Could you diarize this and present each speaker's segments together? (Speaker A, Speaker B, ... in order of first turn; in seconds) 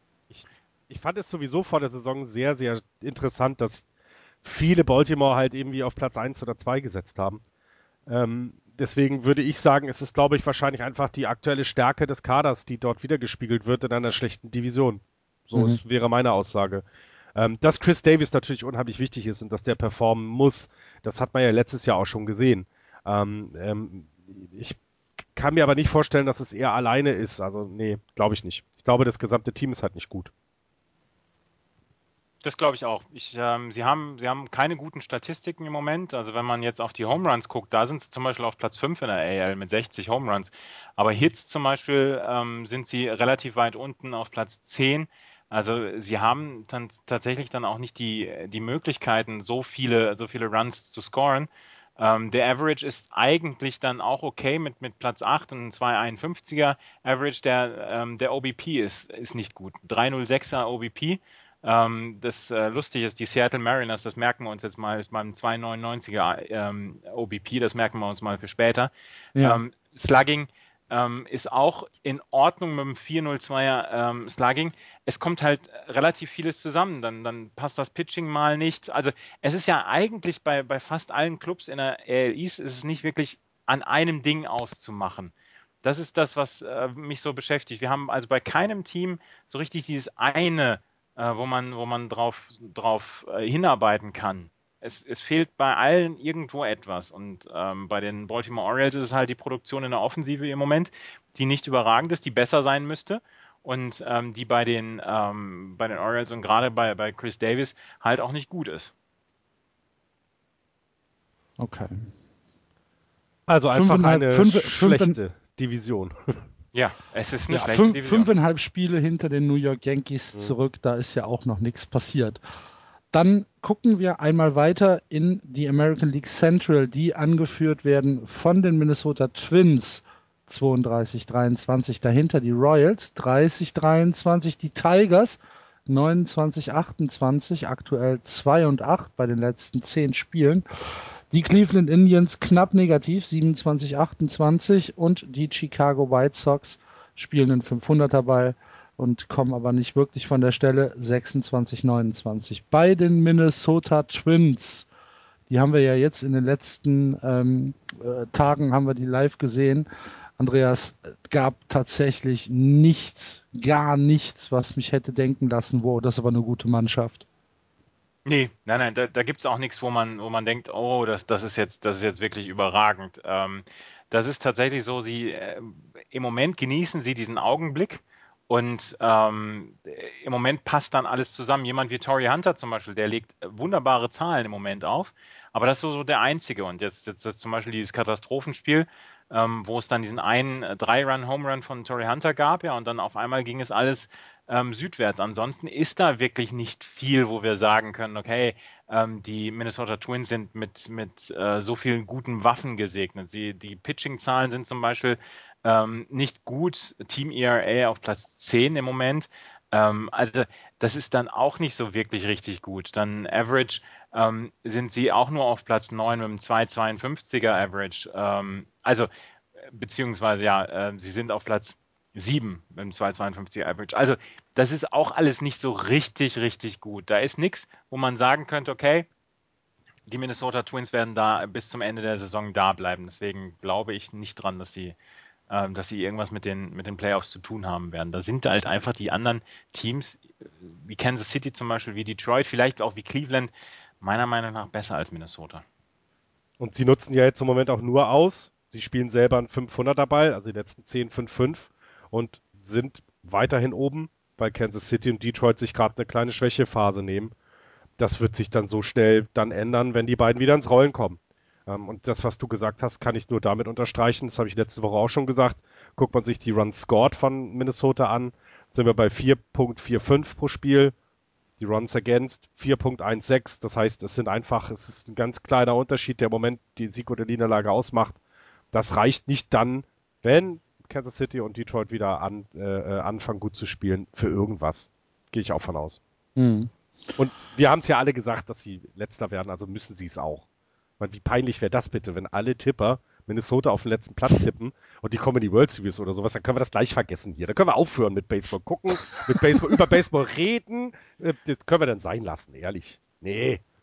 Speaker A: 0.3-3.9, 4.4-7.4, 8.1-16.8, 17.4-24.8, 25.4-30.3, 113.5-116.4, 246.6-257.3, 258.0-270.9, 271.6-278.2, 278.7-286.0, 287.2-290.5, 291.0-303.6
Speaker B: 15.6-15.8, 69.3-69.6, 111.6-112.0, 113.7-115.2, 117.5-122.4, 123.1-154.9, 155.5-167.2, 286.4-286.7
Speaker C: 32.4-108.9, 116.7-118.3, 168.3-219.1, 219.7-229.1, 230.1-235.0, 235.5-245.6